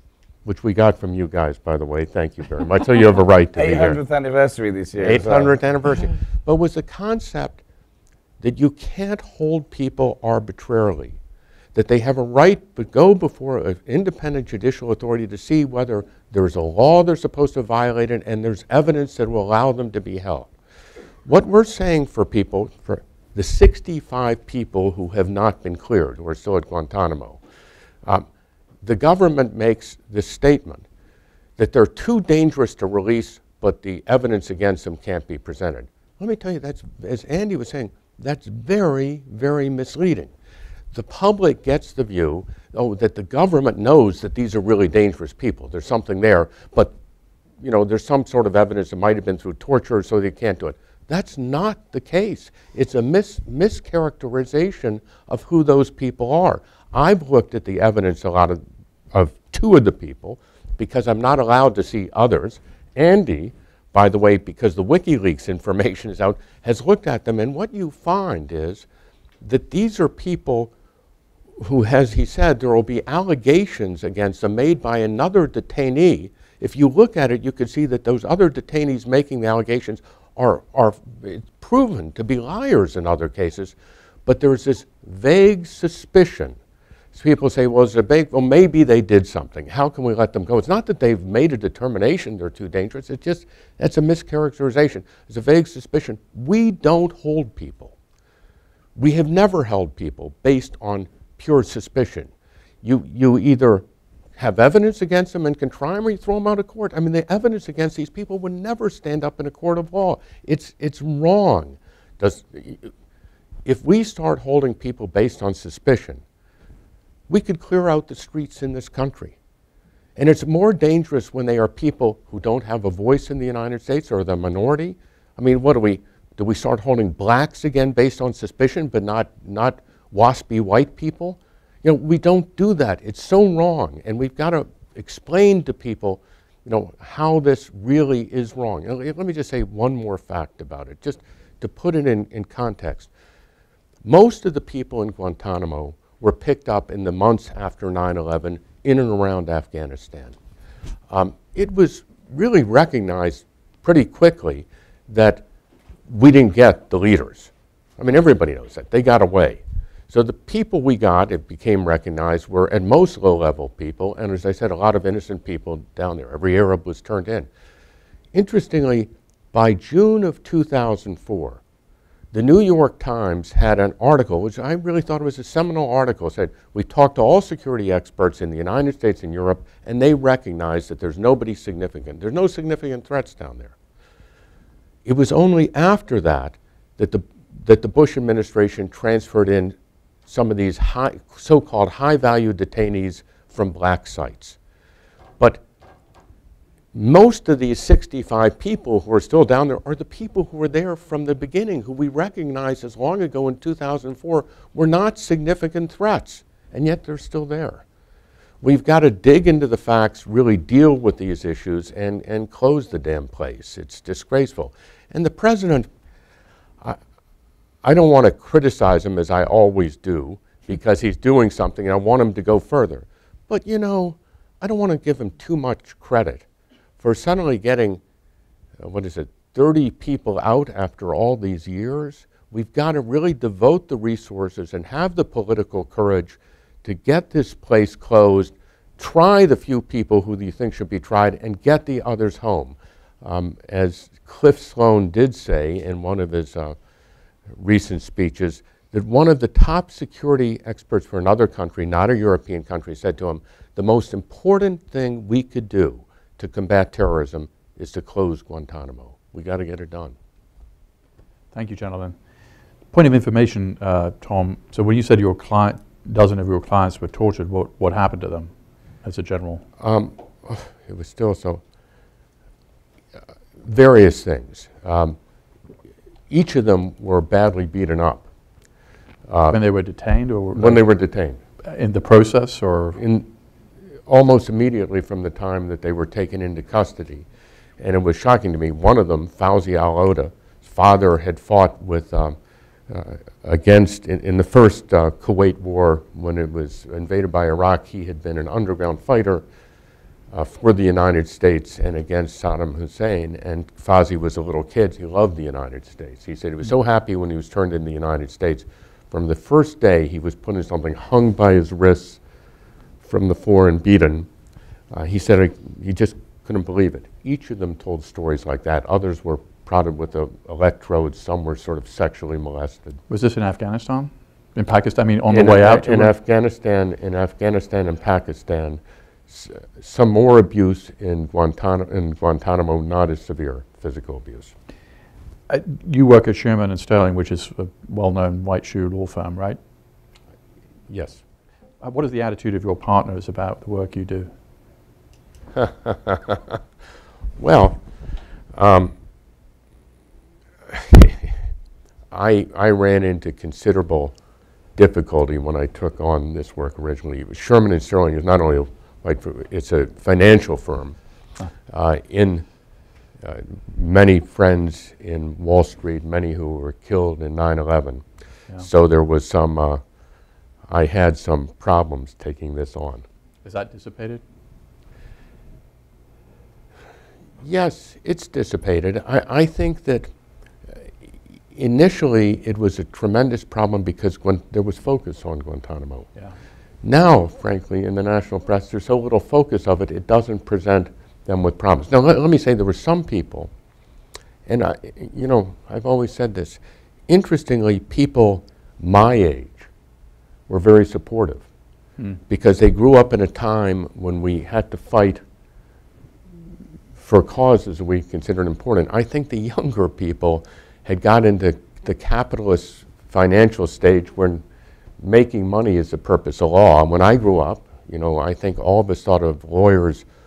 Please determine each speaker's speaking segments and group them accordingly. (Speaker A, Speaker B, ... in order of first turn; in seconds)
Speaker A: 0.4-4.0, 5.0-7.6, 8.4-11.2, 11.7-20.5, 21.2-27.4, 28.8-30.9, 31.6-40.3, 40.9-46.9, 47.6-58.6, 59.1-68.8, 69.4-70.7, 71.6-83.7, 84.2-86.6, 87.1-97.9, 99.0-102.3, 102.8-103.8, 104.4-112.9, 113.6-116.2, 117.3-119.4, 120.2-143.1, 144.0-150.4, 151.1-155.4, 156.1-167.5, 168.3-171.6, 172.3-183.7, 185.0-189.8, 190.3-194.6, 196.9-207.8, 208.6-215.9, 217.8-226.4, 227.0-228.0, 228.8-246.8, 247.6-260.1, 269.8-271.6, 273.6-275.2, 276.3-278.2, 279.3-279.6, 280.5-281.4, 282.9-283.3, 284.1-287.3, 287.8-292.4, 292.9-299.4, 300.3-312.2, 313.0-314.3, 314.9-323.0, 325.3-334.5, 340.9-341.2, 345.5-346.6, 347.4-347.8, 348.5-348.9, 350.7-351.3, 352.1-354.1, 354.8-360.9, 361.7-362.4, 363.2-368.0, 368.6-369.8, 370.7-373.0, 377.4-380.1, 381.5-386.1, 386.8-393.5, 394.4-399.7, 400.5-401.4, 402.3-405.2, 407.0-414.4, 415.0-420.0
Speaker B: 3.6-5.6
Speaker C: 261.5-262.1, 262.9-268.5, 269.0-269.6, 279.5-280.9, 281.6-283.0, 323.1-326.1, 335.5-339.6, 341.8-344.3, 373.4-374.2